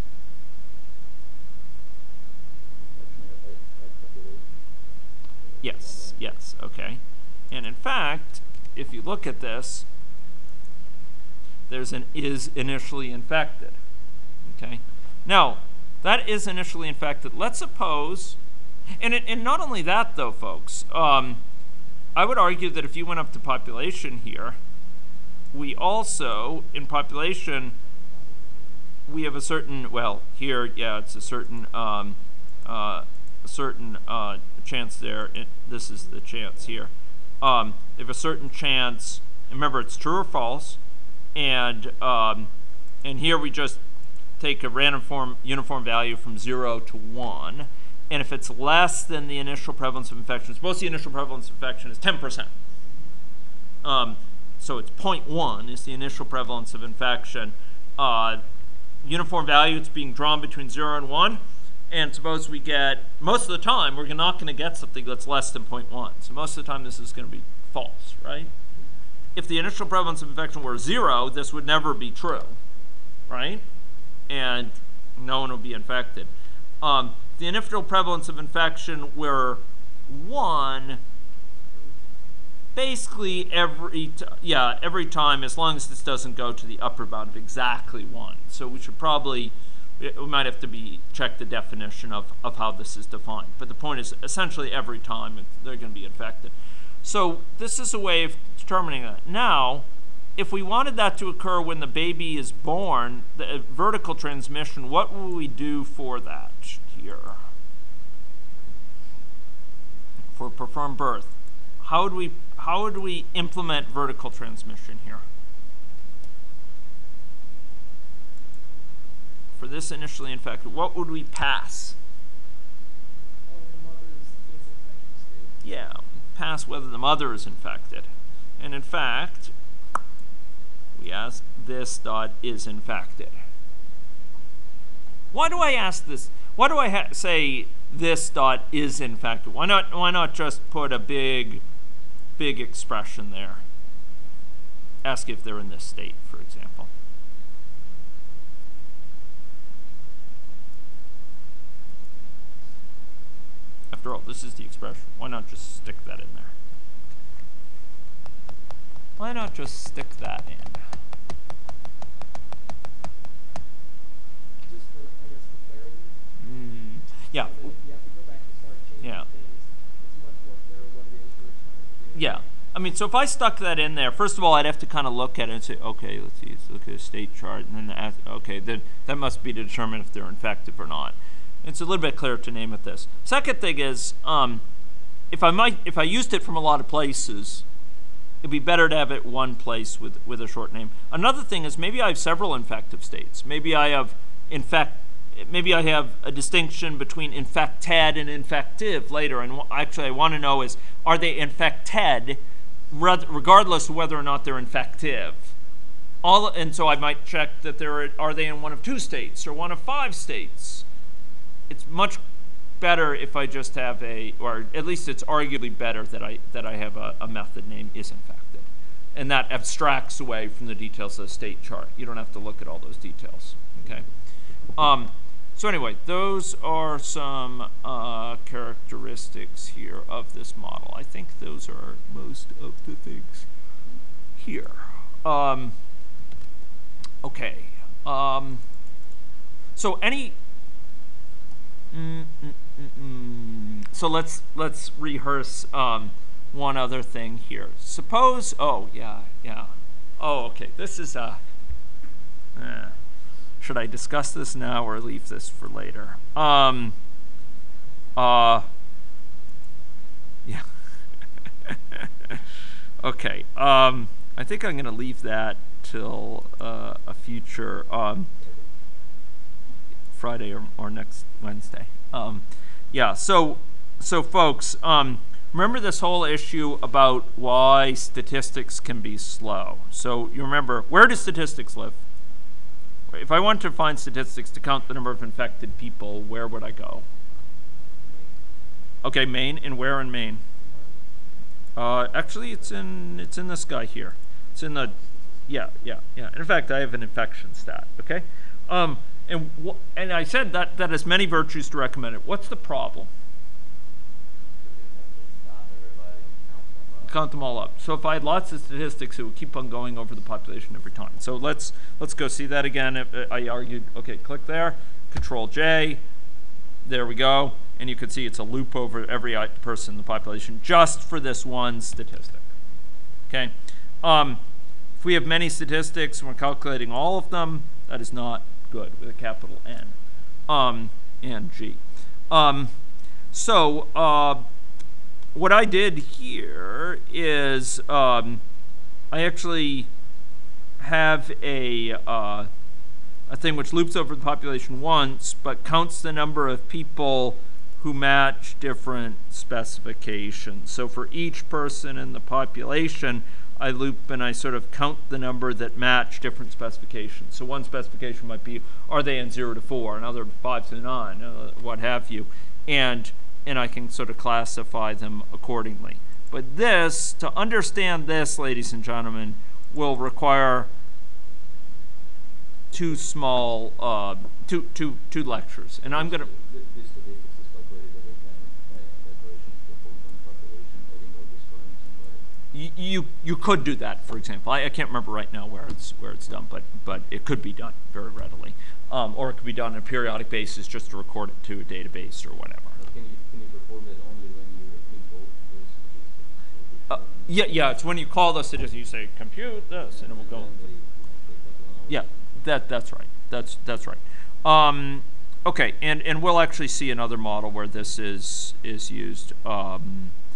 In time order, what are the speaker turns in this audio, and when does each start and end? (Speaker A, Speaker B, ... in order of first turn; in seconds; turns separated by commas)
Speaker A: 2.9-4.7, Speaker A: 5.4-6.3, Speaker B: 5.6-7.0, Speaker B: 7.5-9.9, Speaker B: 11.7-13.8, Speaker B: 14.4-18.4, Speaker B: 19.0-21.4, Speaker B: 22.2-24.6, Speaker B: 25.5-27.8, Speaker C: 27.9-28.9, Speaker B: 29.1-36.9, Speaker C: 36.3-36.7, Speaker B: 37.4-40.8, Speaker B: 41.4-42.5, Speaker B: 43.0-43.8, Speaker B: 44.4-52.5, Speaker B: 53.8-58.4, Speaker B: 59.0-68.5, Speaker B: 69.4-72.6, Speaker B: 73.3-73.6, Speaker B: 74.3-81.0, Speaker B: 82.8-107.4, Speaker B: 110.3-115.2, Speaker B: 119.6-122.0, Speaker C: 123.5-125.6, Speaker B: 125.6-128.1, Speaker B: 128.6-129.5, Speaker B: 130.9-133.4, Speaker B: 135.3-141.6, Speaker B: 142.4-143.6, Speaker B: 145.0-146.9, Speaker B: 153.9-156.5, Speaker B: 159.2-160.8, Speaker C: 164.7-166.2, Speaker B: 166.4-167.7, Speaker C: 167.3-172.4, Speaker B: 172.2-184.6, Speaker B: 185.3-187.7, Speaker B: 188.4-205.5, Speaker B: 206.2-210.8, Speaker B: 211.7-212.2, Speaker B: 212.8-224.1, Speaker B: 224.8-233.5, Speaker B: 234.4-235.8, Speaker B: 237.2-238.6, Speaker B: 239.8-240.4, Speaker B: 241.9-251.4, Speaker B: 252.6-252.9, Speaker B: 253.6-257.0, Speaker B: 258.2-258.7, Speaker B: 261.7-262.4, Speaker B: 263.0-268.3, Speaker A: 268.4-268.7, Speaker B: 270.1-282.0, Speaker B: 283.1-287.1, Speaker C: 287.9-288.4, Speaker B: 289.0-290.4, Speaker C: 290.6-291.0, Speaker B: 291.8-294.9, Speaker C: 292.2-292.8, Speaker C: 294.8-295.5, Speaker B: 295.5-303.1, Speaker A: 304.6-307.3, Speaker B: 307.1-316.0, Speaker B: 316.9-322.5, Speaker B: 323.3-324.4, Speaker B: 325.0-329.9, Speaker B: 330.5-332.7, Speaker B: 333.3-334.4, Speaker B: 335.4-338.4, Speaker B: 339.1-339.9, Speaker B: 340.8-342.5, Speaker B: 343.3-370.7, Speaker B: 372.7-376.3, Speaker A: 375.9-382.2, Speaker B: 382.5-392.8, Speaker A: 392.8-397.8, Speaker B: 396.9-400.5, Speaker A: 399.9-402.2, Speaker B: 401.9-410.1